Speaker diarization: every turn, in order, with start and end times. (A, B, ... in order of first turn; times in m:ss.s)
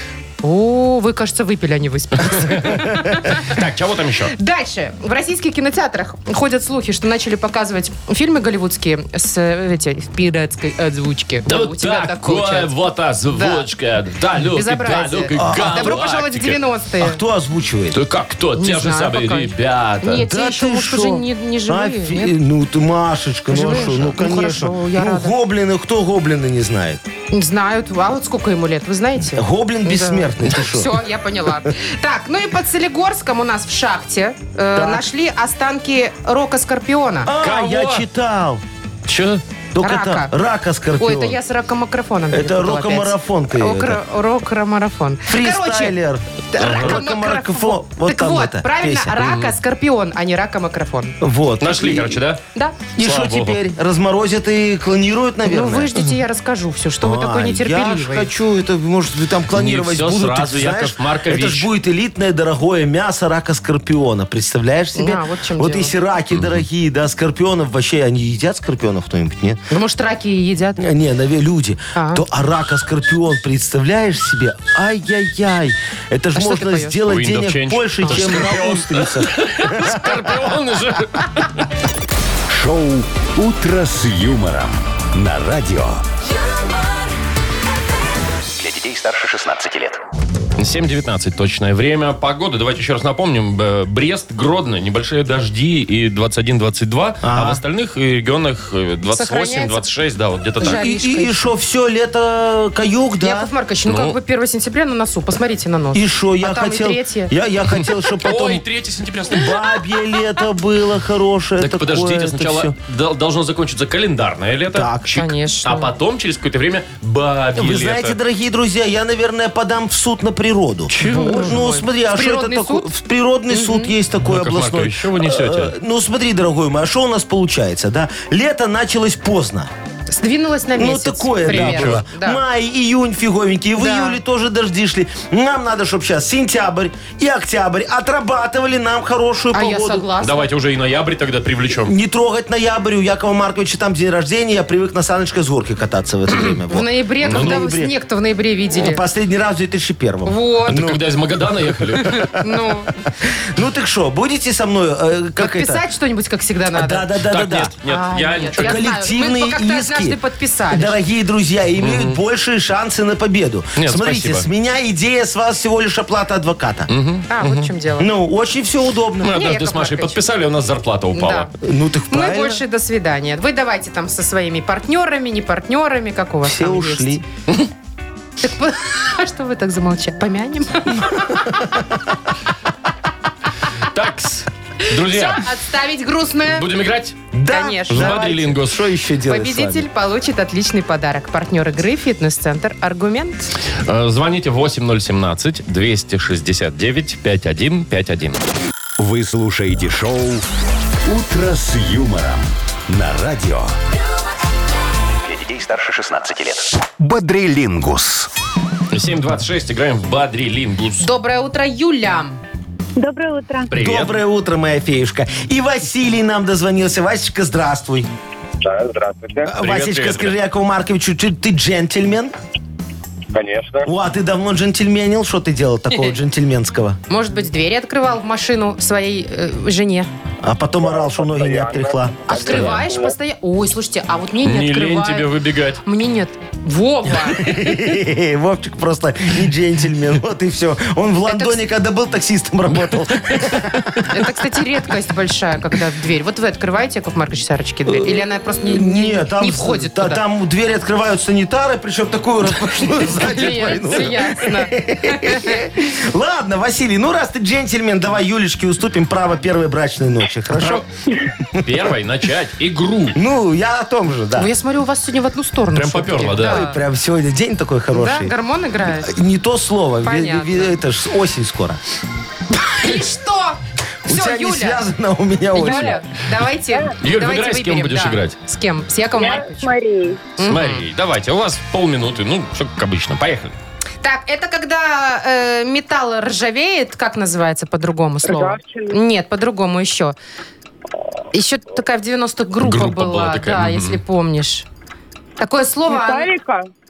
0:00.4-0:03.5 A
0:02.2-0:04.3 B
0:04.3-0:12.7 A
0:11.4-0:16.6 B
0:13.3-0:13.7 A
0:14.4-0:17.2 A
0:15.3-0:16.0 C
0:17.0-0:18.0 C
0:17.9-0:20.2 B
0:18.6-0:22.4 A
0:20.2-0:27.0 C
0:23.5-0:25.4 A
0:27.3-0:37.3 A
0:29.3-0:31.0 C
0:34.7-0:35.1 C
0:37.2-0:38.6 C
0:37.4-0:38.0 B
0:39.1-0:39.4 B
0:39.7-0:41.4 C
0:39.8-0:40.3 A
0:41.0-0:45.9 A
0:42.3-0:44.0 C
0:45.3-0:49.2 C
0:46.5-0:51.2 A
0:46.6-0:47.0 B
0:49.2-0:49.5 B
0:51.2-0:52.2 C
0:51.6-0:52.4 B
0:52.5-0:52.8 A
0:53.0-0:55.9 C
0:53.0-0:53.6 B
0:55.4-0:58.3 A
0:57.0-1:09.6 C
0:59.5-1:01.7 B
1:05.0-1:05.9 A
1:09.7-1:10.8 A
1:10.8-1:20.3 C
1:11.9-1:12.2 A
1:16.4-1:17.0 A
1:17.1-1:21.6 B
1:18.0-1:18.3 A
1:22.5-1:26.0 D
1:28.5-1:30.0 D
1:30.6-1:40.8 B
1:37.2-1:37.6 C
1:39.1-1:39.8 A
1:40.6-1:41.4 A
1:40.6-1:43.5 C
1:43.2-1:47.3 A
1:43.9-1:44.2 B
1:45.9-1:48.6 C
1:48.1-1:49.6 B
1:49.3-1:52.7 C
1:51.6-1:58.2 B
1:54.7-1:55.2 C
1:55.1-1:55.9 A
1:57.5-2:09.7 C
2:00.9-2:01.6 B
2:01.0-2:02.9 A
2:03.5-2:03.9 A
2:04.2-2:05.7 B
2:10.1-2:12.4 A
2:10.7-2:20.1 C
2:11.5-2:12.0 B
2:13.8-2:14.2 A
2:19.5-2:20.5 A
2:20.2-2:21.9 B
2:21.8-2:27.9 C
2:26.7-2:29.0 A
2:27.2-2:27.6 B
2:28.7-2:31.0 C
2:30.2-2:30.9 A
2:30.7-2:32.3 B
2:31.9-2:32.5 C
2:32.0-2:32.9 A
2:33.2-2:35.8 C
2:35.4-2:37.0 A
2:36.7-2:37.7 C
2:37.2-2:38.8 B
2:37.8-2:41.0 A
2:38.5-2:40.2 C
2:40.7-2:46.9 C
2:41.8-2:42.2 B
2:43.8-2:44.5 B
2:46.9-2:47.7 B
2:47.3-2:48.1 A
2:48.0-2:49.4 C
2:49.2-2:51.5 B
2:49.3-2:50.2 A
2:51.2-2:51.5 A
2:51.6-2:52.6 C
2:52.1-2:57.2 A
2:56.4-2:57.2 C
2:58.4-3:01.6 A
3:01.1-3:01.8 C
3:03.8-3:05.5 B
3:04.8-3:06.7 A
3:06.5-3:07.2 B
3:07.3-3:09.9 C
3:07.5-3:08.3 A
3:07.9-3:08.8 B
3:09.3-3:13.5 A
3:13.8-3:18.4 B
3:19.0-3:20.4 D
3:21.0-3:23.7 D
3:25.2-3:28.3 D
3:28.9-3:31.1 B
3:31.0-3:32.4 A
3:33.0-3:33.7 E
3:33.7-3:34.2 B
3:33.7-3:38.1 C
3:38.6-3:39.5 F
3:39.4-3:42.4 C
3:39.6-3:40.3 B
3:43.3-3:43.9 F
3:43.8-3:47.0 C
3:47.1-3:50.1 A
3:50.4-3:52.7 C
3:50.8-3:53.1 F
3:52.3-3:55.3 A
3:52.5-3:52.8 B
3:54.4-3:55.8 B
3:55.8-3:57.5 A
3:57.3-4:04.2 C
4:01.3-4:01.6 A
4:02.7-4:03.8 B
4:04.0-4:10.2 A
4:07.8-4:20.8 C
4:13.0-4:15.6 A
4:21.5-4:23.2 B
4:23.1-4:24.5 C
4:24.4-4:26.8 A
4:25.7-4:26.6 B
4:26.4-4:28.4 C
4:27.9-4:29.1 A
4:28.9-4:31.8 C
4:30.0-4:30.8 A
4:32.5-4:34.8 A
4:34.0-4:36.0 C
4:35.5-4:39.8 A
4:37.0-4:38.4 B
4:39.1-4:40.2 E
4:40.4-4:40.8 A
4:40.4-4:43.5 B
4:44.0-4:50.1 A
4:48.2-4:49.0 E
4:51.3-4:54.6 A
4:52.6-4:54.0 B
4:55.4-4:56.4 A
4:55.9-4:56.6 E